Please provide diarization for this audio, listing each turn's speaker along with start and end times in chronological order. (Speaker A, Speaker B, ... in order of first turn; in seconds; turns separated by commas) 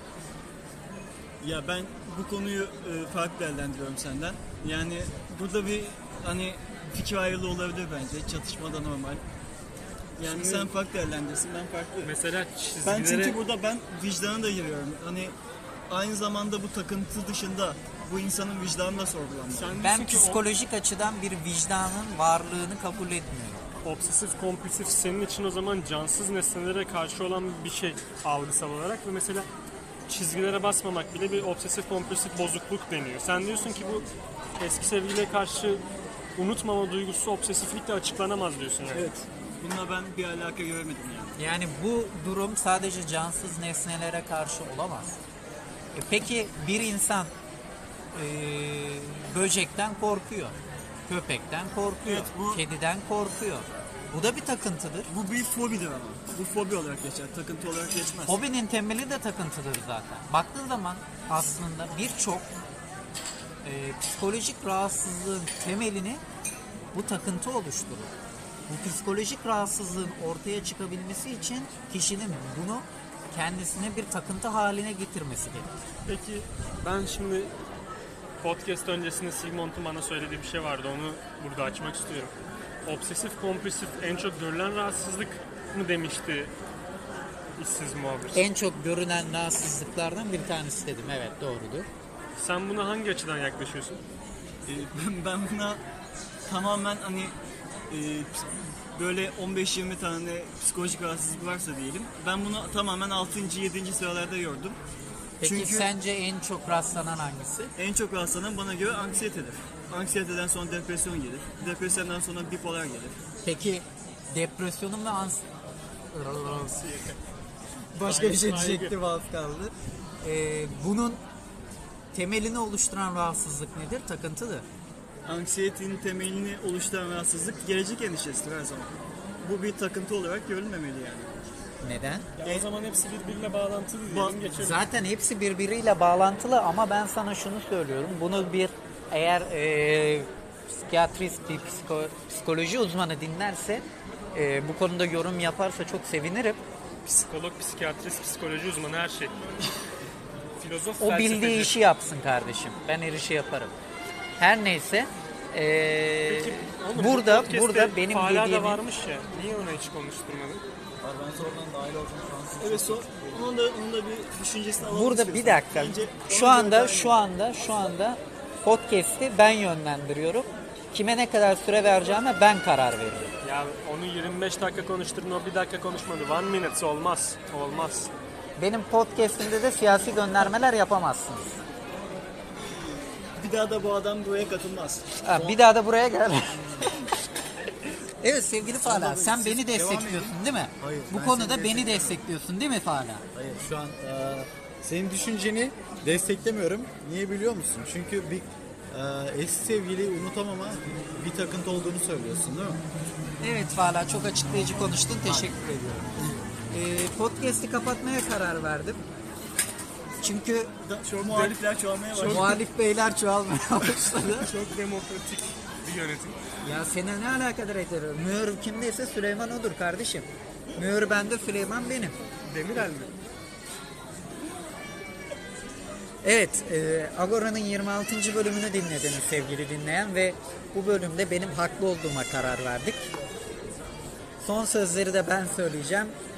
Speaker A: 1.4-9.2, Speaker A: 10.2-12.1, Speaker B: 10.2-10.7, Speaker B: 12.0-13.4, Speaker A: 12.8-15.3, Speaker A: 15.9-19.8, Speaker B: 19.5-20.4, Speaker C: 19.8-23.6, Speaker B: 23.8-29.5, Speaker B: 30.1-34.1, Speaker B: 34.6-35.8, Speaker B: 36.4-39.1, Speaker A: 38.9-41.4, Speaker C: 41.4-45.2, Speaker C: 45.9-47.3, Speaker C: 48.1-50.5, Speaker C: 51.1-55.1, Speaker A: 52.0-52.6, Speaker A: 55.1-58.4, Speaker C: 58.3-62.5, Speaker C: 63.6-66.2, Speaker C: 66.9-68.1, Speaker C: 68.7-75.7, Speaker B: 76.0-77.5, Speaker B: 78.4-82.3, Speaker B: 82.8-86.5, Speaker B: 87.6-88.5, Speaker C: 88.3-91.9, Speaker B: 92.4-94.0, Speaker A: 94.7-95.8, Speaker A: 96.5-97.3, Speaker A: 97.9-104.8, Speaker C: 105.4-107.7, Speaker A: 105.4-105.9, Speaker A: 107.8-113.2, Speaker C: 113.4-115.4, Speaker C: 116.1-116.8, Speaker C: 117.9-121.2, Speaker B: 118.0-119.0, Speaker C: 122.1-124.6, Speaker A: 125.2-131.3, Speaker C: 131.8-132.3, Speaker B: 132.4-134.9, Speaker A: 132.4-132.7, Speaker A: 134.1-134.4, Speaker C: 134.5-146.6, Speaker B: 147.0-149.3, Speaker B: 150.6-151.8, Speaker C: 151.0-153.7, Speaker C: 154.4-158.8, Speaker B: 156.2-160.6, Speaker D: 161.0-163.4, Speaker A: 162.6-167.2, Speaker C: 164.9-173.3, Speaker B: 173.4-178.1, Speaker C: 178.6-181.6, Speaker A: 183.3-185.6, Speaker C: 185.2-186.9, Speaker C: 188.2-193.2, Speaker D: 188.8-192.2, Speaker D: 193.3-202.8, Speaker C: 203.4-205.6, Speaker D: 205.2-206.1, Speaker C: 206.7-209.0, Speaker C: 210.2-210.7, Speaker A: 210.8-212.6, Speaker B: 211.2-212.6, Speaker C: 212.2-214.5, Speaker B: 214.4-216.4, Speaker C: 216.6-222.1, Speaker B: 222.4-223.1, Speaker C: 226.2-233.1, Speaker C: 234.4-236.1